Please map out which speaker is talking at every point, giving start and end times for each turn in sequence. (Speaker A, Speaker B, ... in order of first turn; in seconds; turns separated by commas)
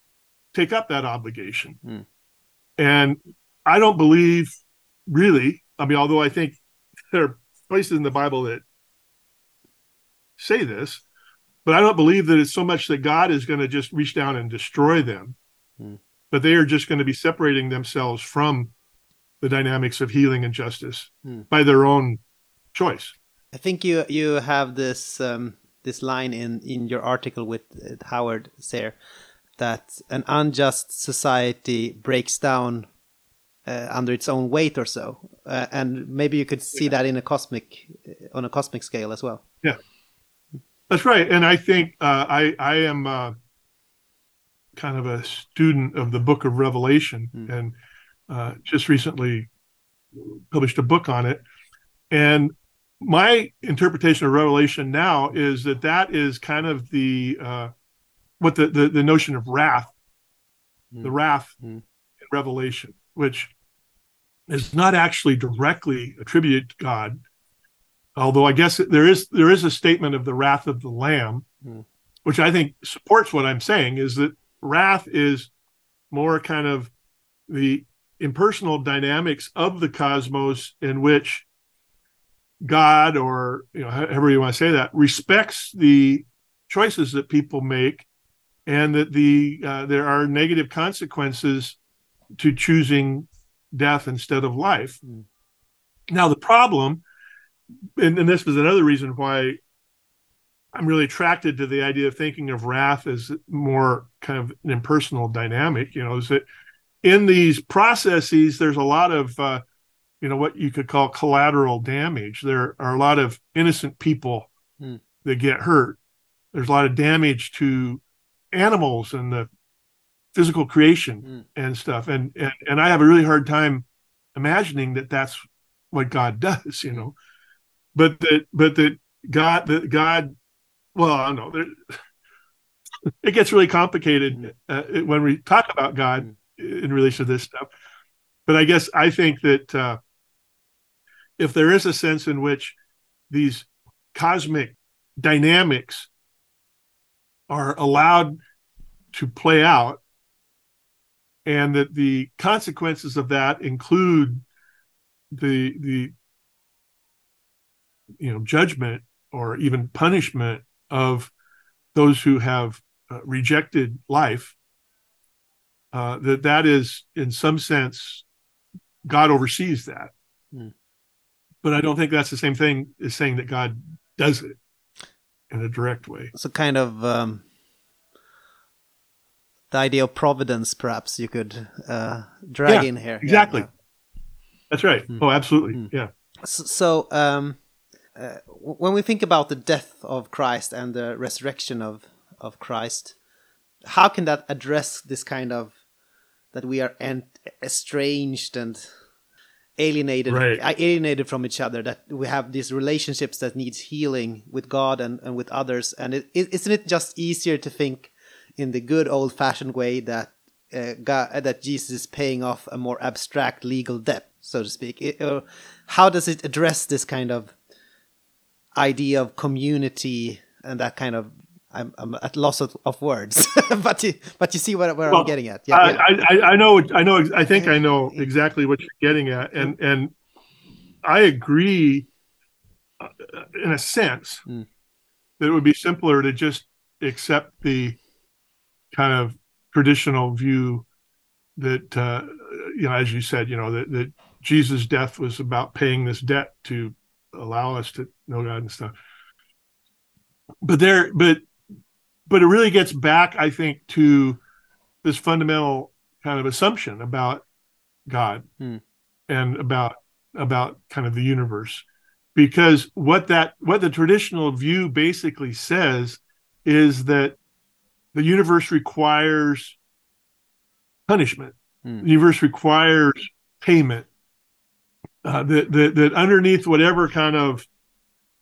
Speaker A: 0.5-1.8, Speaker A: 2.8-6.6, Speaker A: 7.1-8.6, Speaker A: 10.4-11.0, Speaker A: 11.6-15.3, Speaker A: 16.3-18.7, Speaker A: 19.4-22.2, Speaker A: 22.7-23.1, Speaker B: 23.5-29.0, Speaker B: 29.6-32.9, Speaker B: 33.6-39.4, Speaker A: 40.9-43.3, Speaker A: 44.8-47.7, Speaker A: 48.3-49.5, Speaker A: 50.2-51.4, Speaker A: 52.1-57.7, Speaker A: 58.4-59.9, Speaker B: 60.9-61.8, Speaker A: 61.0-61.5, Speaker A: 62.2-63.5, Speaker A: 64.5-67.2, Speaker A: 68.2-71.5, Speaker A: 72.2-75.5, Speaker A: 76.1-76.9, Speaker A: 77.5-81.5, Speaker A: 82.6-88.0, Speaker A: 88.7-91.8, Speaker A: 92.4-95.0, Speaker A: 96.1-97.0, Speaker A: 98.0-99.6, Speaker A: 100.7-106.4, Speaker A: 107.0-109.6, Speaker A: 110.2-114.5, Speaker A: 115.2-116.0, Speaker A: 116.5-119.5, Speaker A: 120.3-125.4, Speaker A: 125.9-127.1, Speaker A: 127.9-130.3, Speaker A: 130.9-132.0, Speaker A: 133.2-137.7, Speaker A: 138.5-140.0, Speaker A: 141.4-142.7, Speaker A: 143.3-146.1, Speaker A: 147.5-148.4, Speaker A: 149.1-150.0, Speaker A: 151.4-154.4, Speaker A: 155.3-156.1, Speaker A: 158.2-161.3, Speaker A: 161.9-164.5, Speaker A: 165.9-168.2, Speaker A: 169.0-170.1, Speaker A: 171.6-174.5, Speaker A: 175.5-176.3, Speaker B: 176.3-177.4, Speaker B: 179.7-183.7, Speaker A: 182.7-183.7, Speaker A: 184.7-186.1, Speaker B: 186.4-187.6, Speaker B: 188.1-193.1, Speaker B: 193.8-195.7, Speaker B: 196.5-198.8, Speaker B: 199.8-217.5, Speaker A: 200.3-200.6, Speaker B: 218.8-226.0, Speaker A: 225.1-230.1, Speaker B: 227.5-228.2, Speaker A: 231.0-232.1, Speaker A: 233.0-234.4, Speaker A: 235.4-238.0, Speaker A: 238.9-240.8, Speaker A: 241.6-248.9, Speaker A: 250.6-251.4, Speaker A: 252.3-254.4, Speaker A: 255.0-257.4, Speaker A: 258.1-258.4, Speaker A: 259.3-267.4, Speaker A: 268.1-269.8, Speaker A: 271.1-274.1, Speaker A: 275.2-277.6